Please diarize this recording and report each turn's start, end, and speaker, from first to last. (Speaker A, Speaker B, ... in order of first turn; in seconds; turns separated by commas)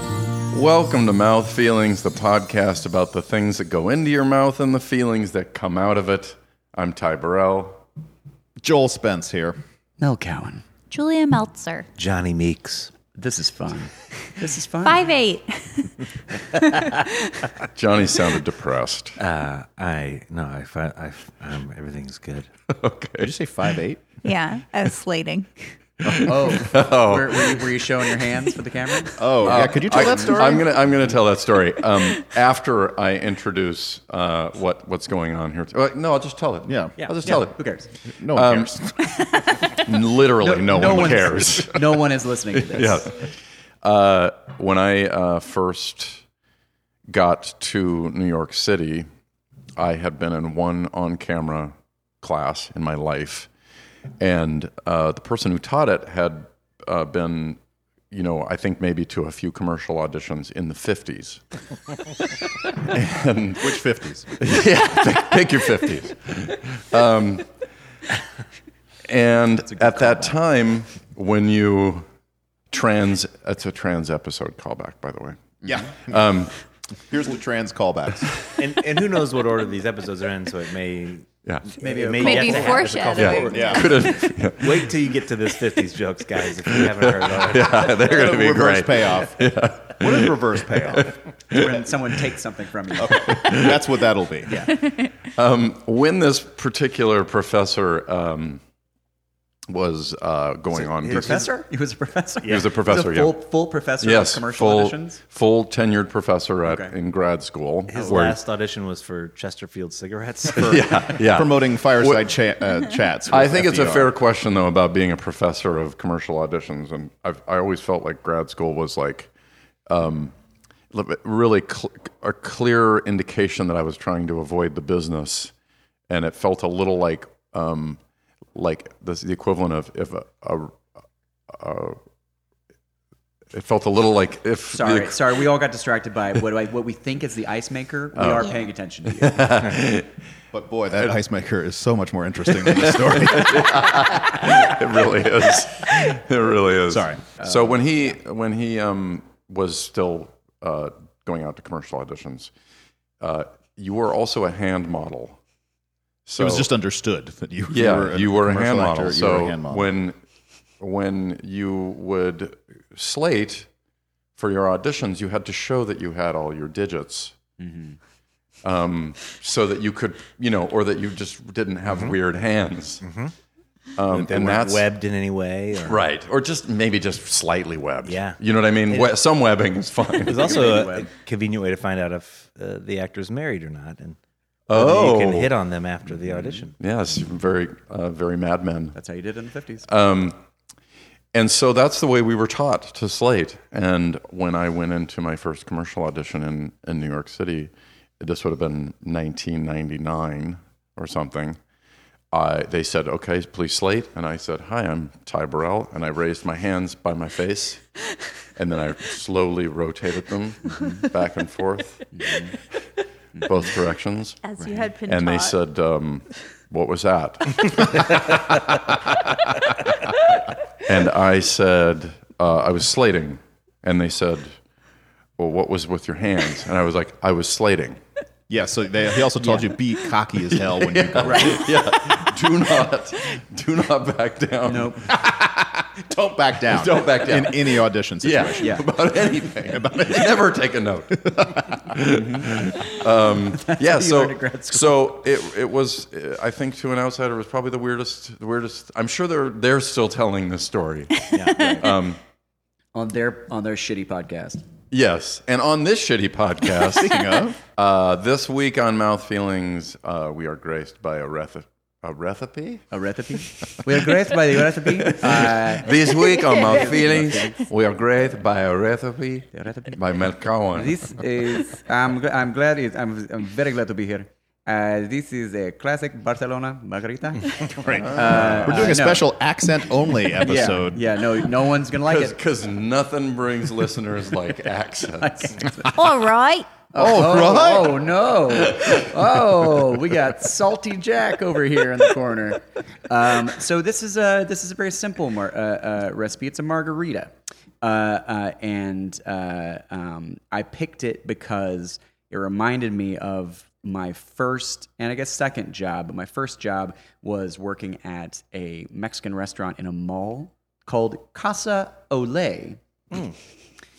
Speaker A: 0.5-7.8, Speaker B: 8.6-9.6, Speaker C: 10.0-10.6, Speaker D: 10.9-11.9, Speaker E: 12.0-12.9, Speaker C: 13.2-15.0, Speaker D: 14.8-17.5, Speaker A: 17.8-19.2, Speaker E: 19.2-22.5, Speaker A: 22.7-23.3, Speaker B: 23.2-24.0, Speaker D: 24.2-25.8, Speaker A: 26.0-27.8, Speaker C: 26.2-30.4, Speaker B: 29.2-30.8, Speaker A: 29.4-37.8, Speaker B: 36.7-37.0, Speaker C: 37.2-37.9, Speaker B: 38.1-39.0, Speaker A: 38.3-38.9, Speaker A: 39.6-43.3, Speaker C: 40.4-43.1, Speaker A: 43.8-46.2, Speaker A: 47.1-49.1, Speaker A: 49.8-53.5, Speaker A: 54.2-57.6, Speaker A: 58.1-61.4, Speaker A: 62.6-63.8, Speaker B: 63.6-64.3, Speaker A: 64.4-67.5, Speaker A: 69.1-72.1, Speaker C: 69.6-70.4, Speaker A: 72.7-76.5, Speaker B: 75.6-76.3, Speaker B: 77.1-78.4, Speaker E: 78.6-87.8, Speaker A: 81.4-81.7, Speaker C: 81.8-83.4, Speaker D: 82.2-83.9, Speaker A: 83.2-85.0, Speaker B: 83.5-83.9, Speaker A: 86.7-91.9, Speaker B: 88.0-91.1, Speaker C: 91.5-93.3, Speaker B: 93.0-94.7, Speaker A: 93.2-93.9, Speaker A: 95.3-98.6, Speaker A: 99.7-101.5, Speaker E: 100.8-101.5, Speaker C: 101.1-105.2, Speaker A: 102.5-103.4, Speaker A: 104.0-108.4, Speaker C: 106.7-106.9, Speaker E: 107.9-111.2, Speaker C: 107.9-108.3, Speaker A: 110.5-112.3, Speaker B: 111.2-114.2, Speaker A: 113.3-119.3, Speaker A: 119.9-120.3, Speaker A: 120.9-125.5, Speaker A: 126.1-128.0, Speaker A: 128.5-130.8, Speaker A: 131.5-132.0, Speaker A: 133.5-135.3, Speaker C: 134.7-139.5, Speaker A: 138.2-138.5, Speaker A: 139.1-140.1, Speaker B: 140.5-144.0, Speaker A: 142.5-152.5, Speaker B: 146.9-147.2, Speaker C: 147.4-147.8, Speaker A: 153.2-155.4, Speaker A: 156.3-156.7, Speaker B: 156.4-159.9, Speaker A: 157.7-160.2, Speaker A: 160.8-163.7, Speaker A: 164.4-167.4, Speaker C: 167.6-168.0, Speaker A: 168.6-173.0, Speaker E: 171.9-172.2, Speaker E: 173.0-173.3, Speaker A: 174.0-174.9, Speaker E: 174.1-176.0, Speaker A: 175.8-180.6, Speaker E: 178.1-179.1, Speaker E: 180.2-184.2, Speaker C: 180.3-181.1, Speaker A: 184.7-185.5, Speaker E: 184.7-186.7, Speaker A: 186.3-189.0, Speaker C: 188.9-189.9, Speaker A: 189.9-190.4, Speaker A: 191.3-201.6, Speaker A: 202.3-207.9, Speaker A: 208.6-212.1, Speaker C: 210.7-211.0, Speaker C: 212.1-212.6, Speaker A: 213.4-214.5, Speaker D: 214.4-215.6, Speaker A: 215.1-219.7, Speaker A: 220.8-224.6, Speaker A: 225.4-228.0, Speaker B: 228.5-231.6, Speaker C: 229.4-229.7, Speaker A: 230.5-234.9, Speaker C: 231.2-231.6, Speaker C: 234.7-235.1, Speaker B: 235.1-238.9, Speaker A: 236.7-252.2, Speaker B: 239.7-240.5, Speaker B: 241.1-242.0, Speaker C: 242.0-242.8, Speaker C: 243.6-244.9, Speaker E: 251.3-251.8, Speaker C: 252.9-254.6, Speaker A: 254.9-262.9, Speaker B: 256.9-257.6, Speaker C: 262.9-266.0, Speaker A: 264.8-271.0, Speaker C: 266.5-267.6, Speaker C: 269.5-270.0, Speaker C: 270.7-279.3, Speaker B: 277.7-281.1, Speaker A: 277.9-279.0, Speaker C: 280.4-282.4, Speaker A: 282.1-285.7, Speaker C: 285.2-286.0, Speaker D: 285.9-286.7, Speaker C: 286.9-312.8, Speaker B: 287.0-288.0